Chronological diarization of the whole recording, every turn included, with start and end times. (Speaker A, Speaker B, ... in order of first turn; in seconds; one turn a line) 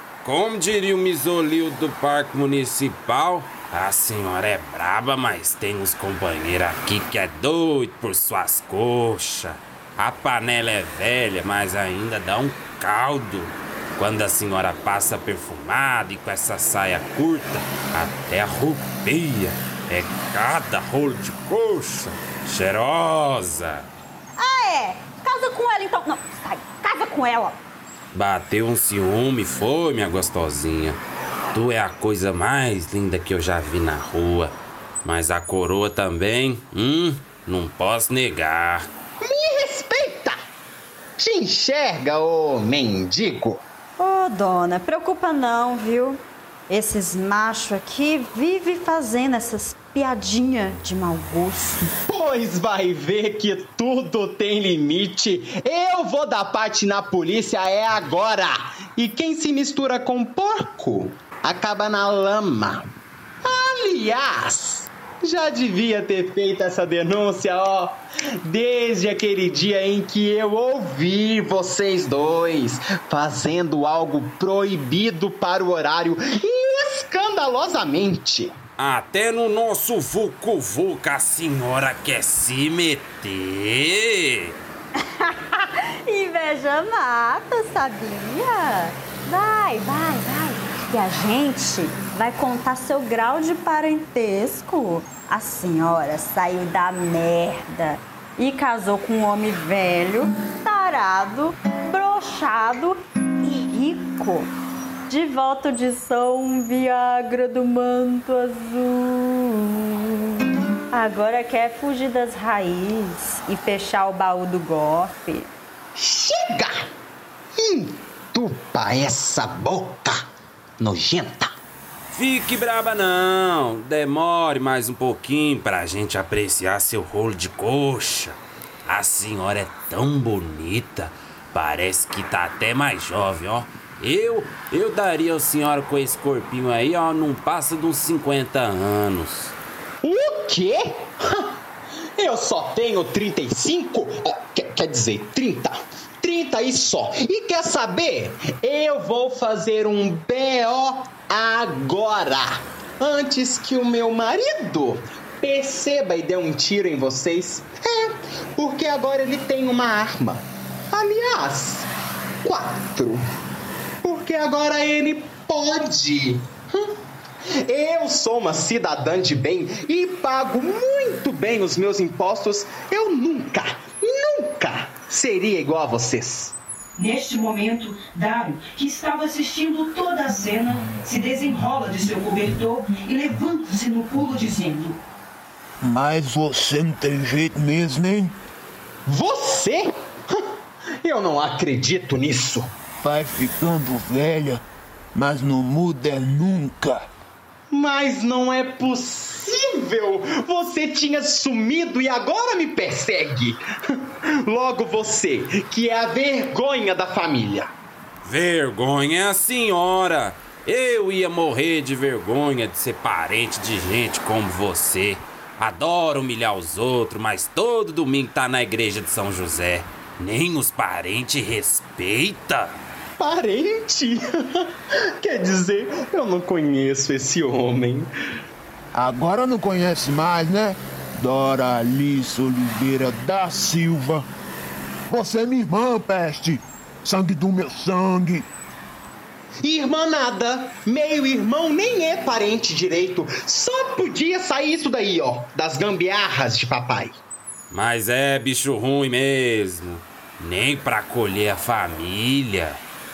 Speaker A: 0.2-23.9
Speaker B: 24.4-27.6
Speaker A: 28.1-31.0
Speaker A: 31.5-38.9
Speaker C: 39.2-40.4
Speaker C: 41.2-43.6
Speaker B: 44.0-51.9
Speaker C: 52.1-62.8
Speaker C: 63.4-78.5
Speaker A: 78.8-84.6
Speaker B: 85.0-104.5
Speaker B: 105.1-110.3
Speaker B: 110.9-115.5
Speaker C: 116.0-116.8
Speaker C: 117.6-120.2
Speaker C: 120.8-121.6
Speaker A: 122.1-139.6
Speaker C: 140.0-141.6
Speaker C: 142.2-161.9
Speaker C: 162.4-163.2
Speaker C: 164.0-166.9
Speaker C: 167.7-176.6
Speaker D: 177.0-185.0
Speaker E: 185.8-188.3
Speaker C: 189.1-190.4
Speaker C: 191.0-192.7
Speaker E: 193.0-194.6
Speaker E: 195.1-197.1
Speaker C: 197.7-207.7
Speaker A: 208.2-222.8
Speaker C: 223.2-224.7
Speaker C: 225.2-228.1
Speaker E: 228.9-234.3
Speaker E: 235.1-238.5
Speaker C: 239.6-247.2
Speaker A: 247.7-252.8